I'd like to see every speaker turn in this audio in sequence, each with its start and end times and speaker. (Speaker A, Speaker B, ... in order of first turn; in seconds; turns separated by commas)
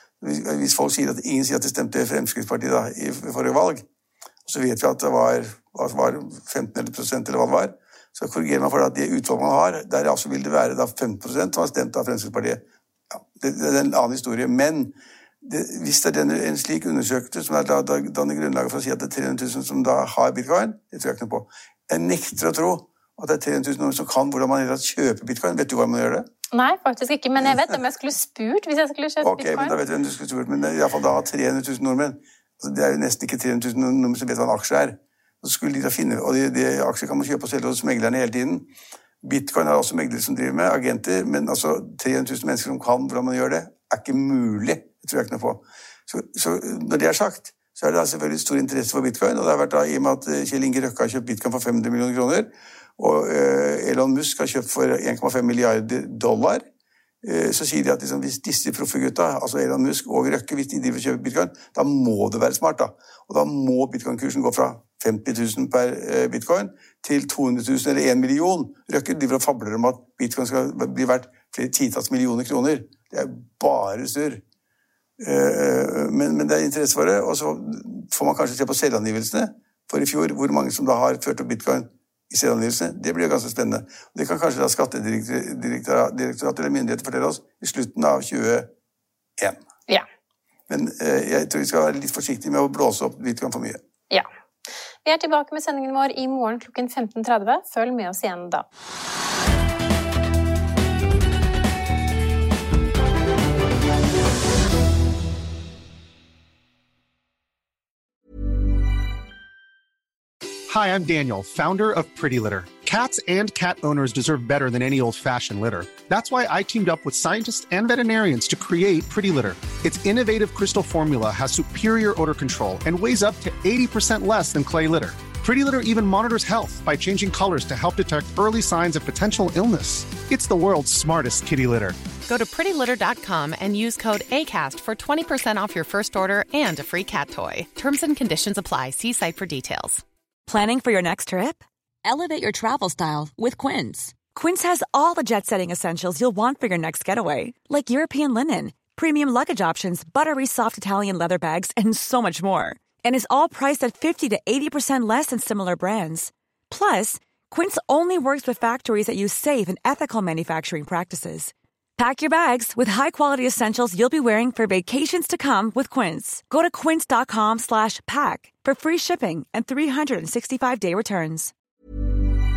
Speaker A: 0.2-3.8, Speaker A: 4.4-12.6, Speaker A: 13.4-26.2, Speaker B: 26.5-29.8, Speaker A: 29.2-38.7, Speaker A: 39.2-56.6, Speaker A: 57.2-74.4, Speaker A: 75.2-88.7, Speaker A: 90.7-93.8, Speaker B: 95.0-98.6, Speaker C: 110.7-132.0, Speaker D: 132.2-140.0, Speaker E: 140.5-141.6, Speaker E: 142.3-171.5